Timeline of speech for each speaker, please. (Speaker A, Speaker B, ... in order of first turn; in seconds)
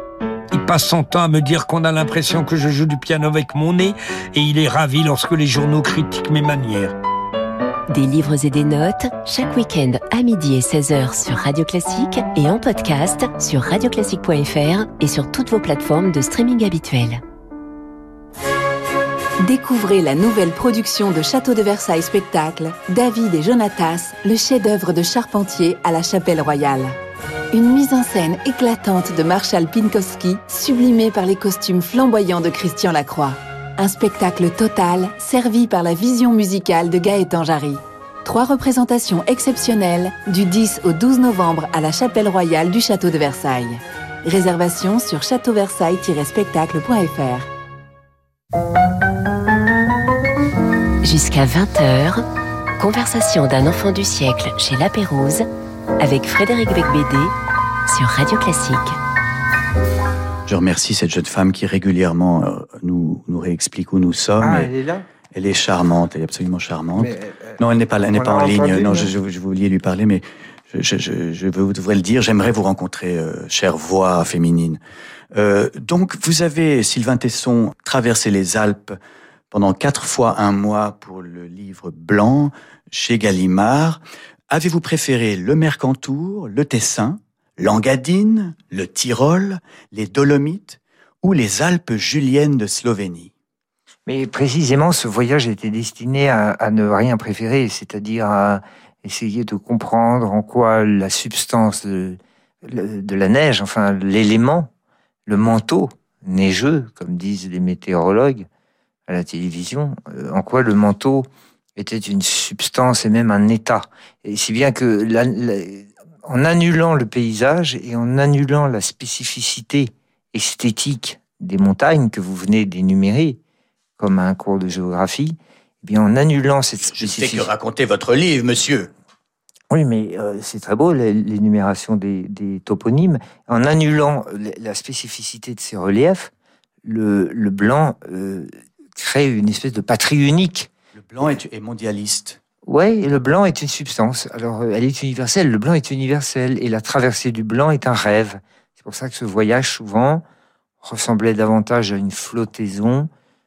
Speaker A: 0.5-7.0
Speaker B: 7.9-17.2, 51.0-52.2, 52.8-55.5, 56.0-57.3, 57.9-59.0
Speaker C: 19.4-27.0, 27.5-47.5
Speaker D: 60.5-64.7, 65.3-74.8, 75.3-79.0, 79.5-93.3, 126.8-128.9, 140.9-142.4
Speaker E: 64.4-65.0, 67.0-67.6, 68.1-69.1, 94.1-104.7, 105.3-108.5, 109.1-123.4, 124.0-127.5, 129.7-136.3, 136.8-140.7, 142.7-150.2, 150.8-153.1